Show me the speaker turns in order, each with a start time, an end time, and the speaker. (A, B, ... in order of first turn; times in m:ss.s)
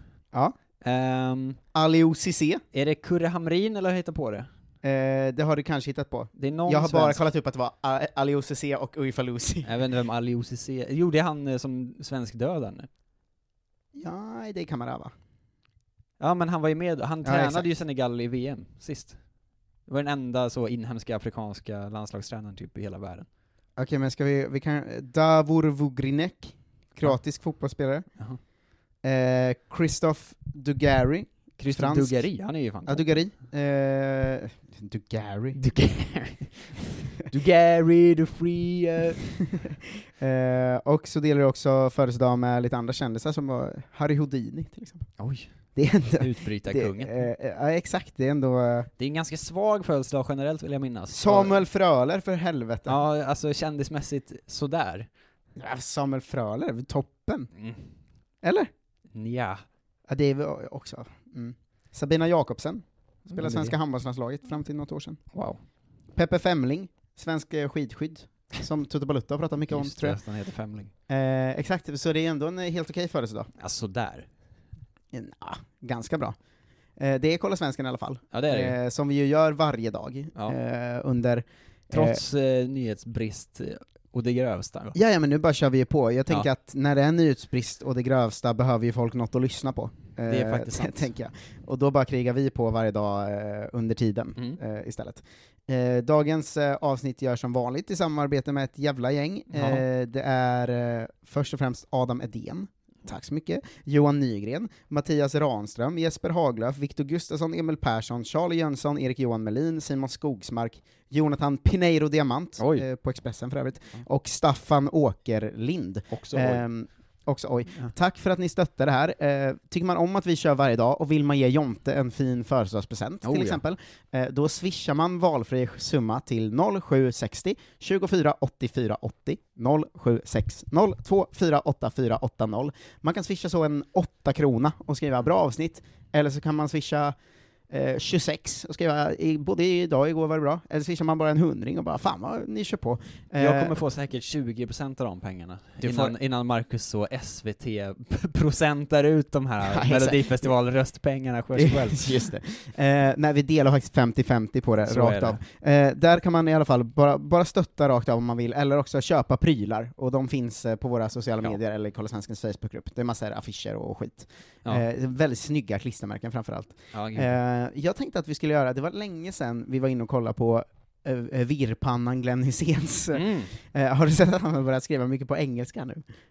0:00.8-0:01.6 A
0:01.7-0:02.6 B
0:02.7-0:04.5 A
0:04.8-0:09.7 B
0:06.4-0:07.2 A
0:09.6-0:12.9 A
0:14.0-0:15.1 B
0:16.2-0:19.2 A
0:17.2-0:17.7 B
0:19.9-0:23.3 A
0:23.8-0:28.1 B
0:29.0-0:32.3 B
0:31.6-0:33.2 A
0:32.9-0:35.6 B
0:35.6-0:39.2 A
0:39.4-0:45.1 B
0:45.2-0:45.5 A
0:45.8-0:48.9 B
0:46.2-0:47.3 A
0:49.0-0:51.6 A
0:51.1-0:53.0 B
0:52.9-0:55.1 A
0:55.6-0:57.5 B
0:57.6-0:57.8 A
0:58.4-0:58.7 B
0:59.1-0:59.6 A
1:00.1-1:05.2 B
1:03.3-1:03.8 A
1:05.3-1:05.6 A
1:06.2-1:10.2 B
1:09.7-1:10.9 A
1:11.1-1:13.5 B
1:13.6-1:14.3 A
1:15.1-1:16.4 B
1:17.0-1:22.2 B
1:18.3-1:18.8 A
1:21.9-1:25.0 A
1:24.9-2:17.2 B
1:30.3-1:31.1 A
1:39.5-1:39.8 A
1:52.6-1:52.9 A
1:56.1-1:56.6 A
2:03.2-2:03.6 A
2:17.7-2:23.8 B
2:23.4-2:32.3 A
2:25.8-2:26.1 B
2:29.6-2:30.5 B
2:31.6-2:56.0 B
2:34.8-2:35.4 A
2:46.9-2:47.3 A
2:53.1-2:53.5 A